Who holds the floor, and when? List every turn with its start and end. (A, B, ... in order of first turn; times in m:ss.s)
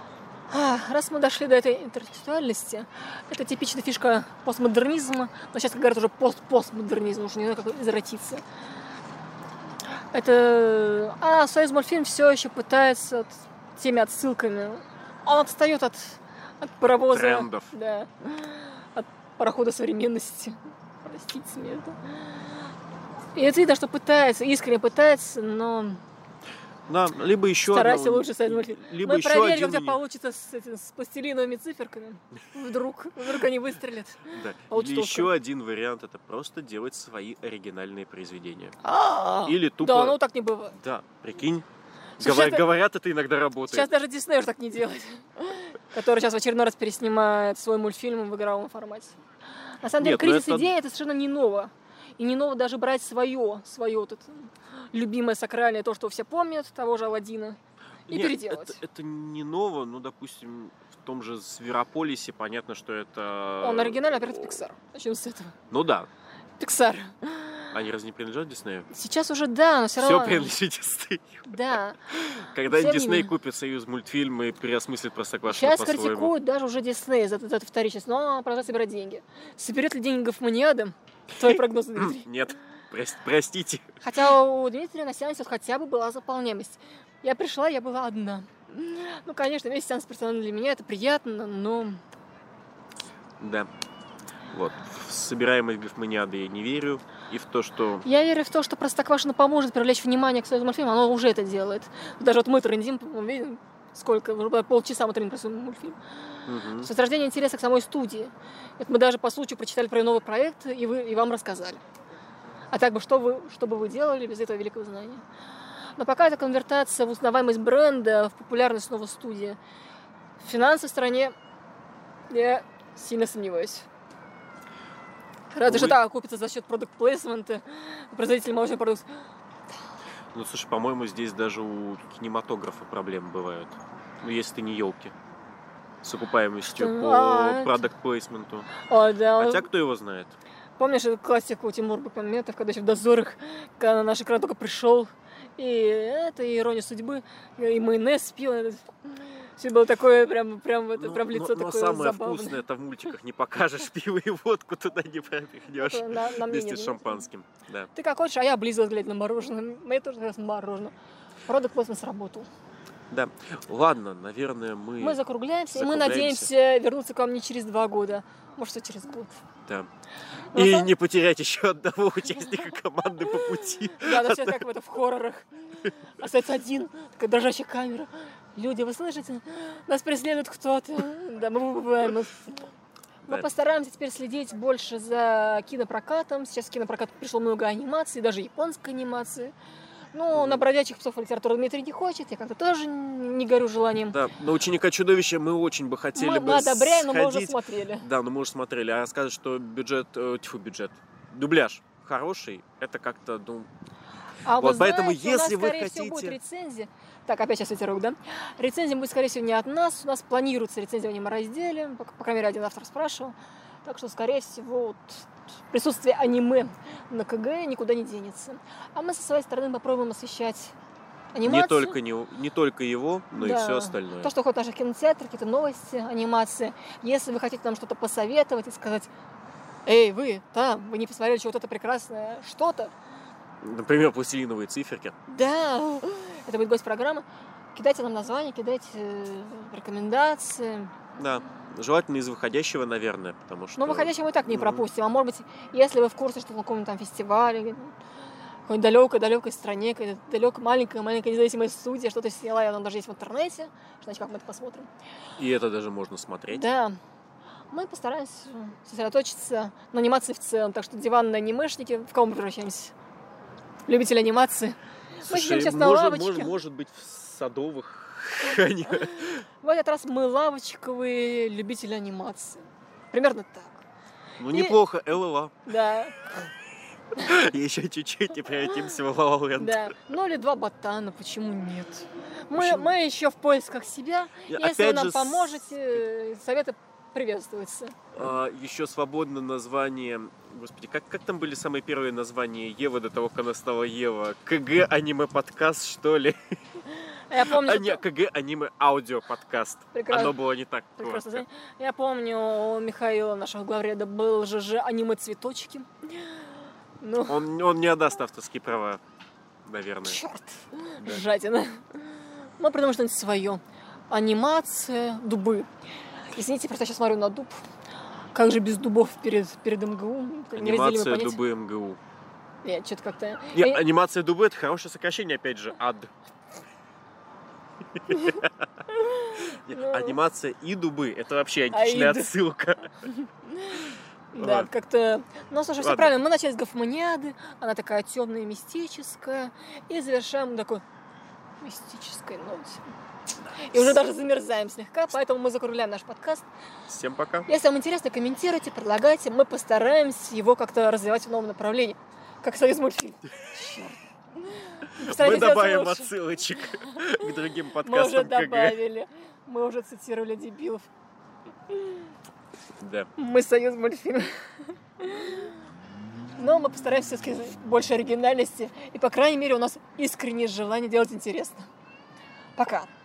0:00.5-0:08.4 A
0:10.1-0:22.2 A
0:16.8-0:17.7 B
0:23.3-0:26.0 A
0:26.9-0:30.0 B
0:27.6-0:35.3 A
0:34.3-0:38.8 B
0:38.8-0:40.8 A
0:39.4-0:40.2 B
0:40.7-0:41.6 B
0:42.2-0:43.9 B
0:42.2-0:42.7 A
0:43.7-0:49.2 A
0:49.8-0:58.8 A
0:50.0-0:50.7 B
0:58.1-1:04.6 B
1:03.6-1:05.5 A
1:05.7-1:06.1 B
1:06.6-1:07.6 A
1:07.7-1:08.9 B
1:08.9-1:10.5 A
1:10.0-1:11.6 B
1:11.5-1:13.3 A
1:12.2-1:16.3 B
1:15.5-1:22.3 A
1:22.0-1:23.9 B
1:24.0-1:32.0 A
1:33.4-1:33.7 B
1:34.5-1:38.0 B
1:38.0-1:46.0 A
1:46.4-1:46.9 B
1:46.8-1:51.8 A
1:52.7-1:55.2 A
1:56.0-1:59.6 A
2:00.4-2:01.3 A
2:02.3-2:03.9 A
2:05.5-2:09.2 A
2:05.6-2:06.0 B
2:10.3-2:15.1 B
2:16.0-2:18.7 B
2:16.7-2:17.8 A
2:18.8-2:19.7 A
2:19.4-2:20.3 B
2:20.8-2:32.6 A
2:31.0-2:37.9 B
2:35.8-2:37.2 A
2:37.9-2:40.9 A
2:41.4-2:42.5 A
2:43.1-2:45.2 B
2:45.0-2:49.4 A
2:45.7-2:46.5 B
2:50.5-2:50.9 A
2:50.5-2:54.6 B
2:54.0-3:02.7 A
3:03.3-3:09.5 A
3:10.1-3:14.2 A
3:10.3-3:10.6 B
3:14.1-3:23.7 B
3:16.1-3:18.0 A
3:24.4-3:40.7 A
3:24.6-3:26.4 B
3:41.3-3:42.0 A
3:41.4-3:44.3 B
3:43.3-3:49.1 A
3:49.8-3:52.9 A
3:53.6-3:55.2 B
3:55.3-4:00.9 A
4:01.2-4:04.8 B
4:03.8-4:08.0 A
4:08.6-4:14.9 A
4:15.4-4:16.7 B
4:16.5-4:17.0 A
4:17.7-4:22.9 A
4:23.9-4:26.6 A
4:25.2-4:29.4 B
4:29.2-4:33.8 A
4:34.4-4:35.6 B
4:34.5-4:34.8 A
4:35.6-4:36.1 A
4:37.1-4:39.9 B
4:39.6-4:48.0 A
4:42.5-4:42.9 B
4:44.5-4:45.7 B
4:48.1-4:56.6 B
4:57.3-4:58.0 A
4:57.4-5:01.4 B
4:59.9-5:00.4 A
5:01.0-5:05.9 A
5:07.0-5:07.4 A
5:07.3-5:09.0 B
5:09.6-5:10.2 B
5:10.0-5:12.0 A
5:12.6-5:15.7 A
5:16.2-5:17.6 A
5:18.3-5:21.4 A
5:20.5-5:22.0 B
5:22.6-5:23.8 A
5:23.5-5:26.1 B
5:28.0-5:28.6 B
5:28.1-5:28.4 A
5:28.9-5:30.2 A
5:29.3-5:33.1 B
5:31.7-5:32.3 A
5:33.2-5:40.8 A
5:34.4-5:34.7 B
5:35.8-5:36.1 B
5:41.6-5:42.8 A
5:43.6-5:46.5 A
5:46.9-5:47.5 B
5:47.5-5:54.0 A
5:54.6-5:56.1 A
5:54.9-5:58.8 B
5:57.2-6:00.9 A
6:02.8-6:03.1 B
6:03.2-6:05.5 A
6:06.4-6:11.7 A
6:12.6-6:12.9 A